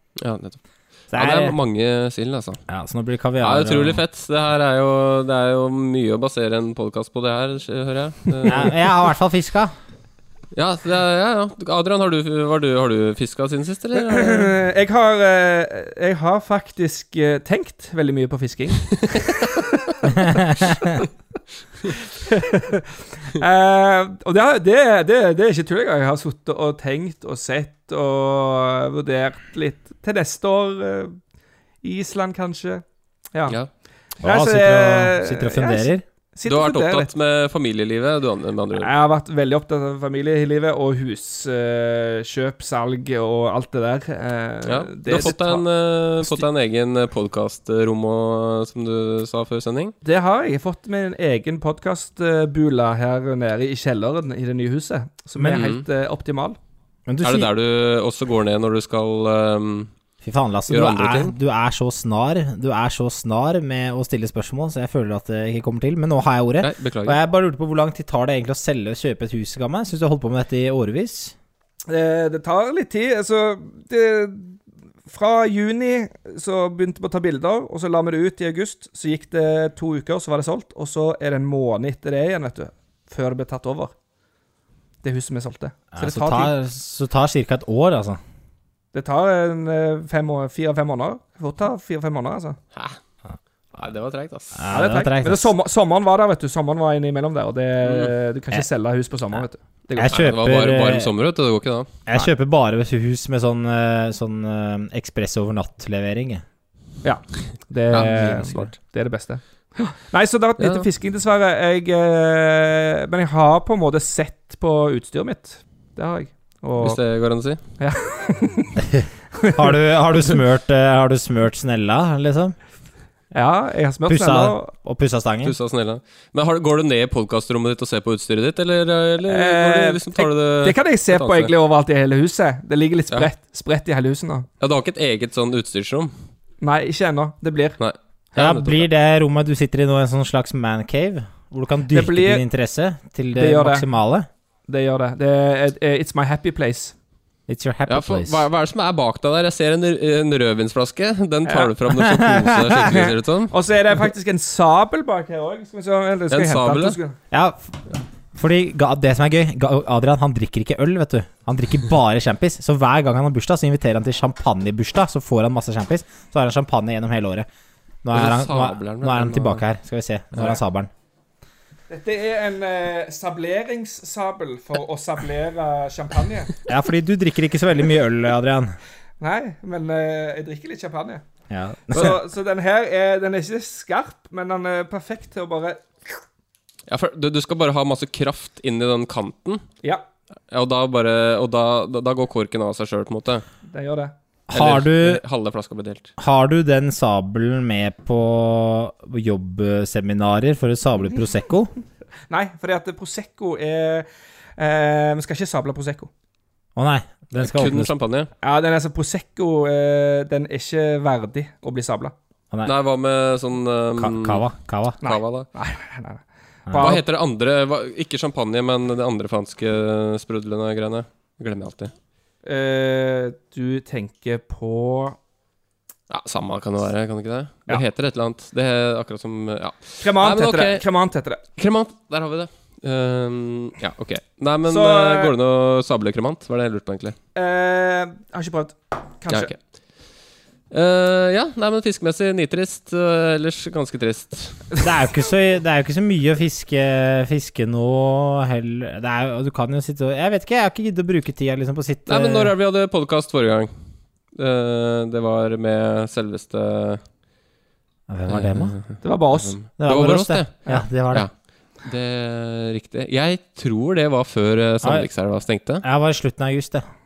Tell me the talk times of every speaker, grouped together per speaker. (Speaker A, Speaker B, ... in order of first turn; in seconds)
Speaker A: 0.2-0.6, 1.1-2.6, 3.4-8.7, 10.5-14.5, 36.5-38.9, 44.6-49.9, 55.5-55.8, 57.2-59.9, 60.7-61.3, 66.6-67.2, 93.7-94.6, 97.8-98.1, 100.0-101.9, 107.9-108.7, 110.6-110.9, 116.8-117.6, 125.4-131.5, 134.6-136.1, 147.9-153.5, 156.3-157.0, 168.1-169.6, 186.9-189.6, 190.5-193.4, 194.5-196.1, 207.4-208.3, 212.6-214.4, 215.0-215.5, 216.7-221.9, 226.1-230.8, 231.6-237.2, 239.3-239.6, 240.7-244.6, 252.1-253.7, 254.3-257.0, 258.3-260.5, 261.8-265.8
Speaker B: 1.1-1.6, 2.7-4.0, 8.4-9.7, 20.1-20.8, 34.2-36.0, 57.1-57.5, 60.2-71.3, 85.9-88.2, 94.5-95.5, 99.9-101.1, 102.1-106.4, 118.9-122.5, 124.1-125.5, 138.3-144.3, 147.5-148.4, 152.1-152.8, 157.3-167.5, 168.0-170.9, 176.7-178.7, 181.5-182.2, 194.5-195.2, 196.2-201.7, 206.8-207.9, 214.0-215.0, 216.7-216.9, 244.8-252.5, 258.1-258.8, 259.8-261.3, 264.8-265.1, 265.8-266.8
Speaker C: 14.0-19.3, 22.3-31.2, 31.8-33.5, 34.2-37.1, 38.8-45.6, 50.0-56.6, 71.9-83.9, 85.0-86.5, 88.9-92.6, 94.7-100.2, 107.0-117.0, 117.8-118.8, 119.4-119.7, 123.3-124.7, 129.3-134.5, 136.6-137.8, 138.3-138.7, 141.9-142.4, 143.3-143.8, 144.7-146.9, 151.4-151.7, 152.8-157.2, 171.9-176.6, 179.2-181.2, 181.9-186.2, 193.7-194.1, 202.3-206.1, 208.4-212.1, 215.0-217.0, 222.4-225.2, 230.0-231.4, 234.7-235.3, 237.3-239.5, 259.0-259.6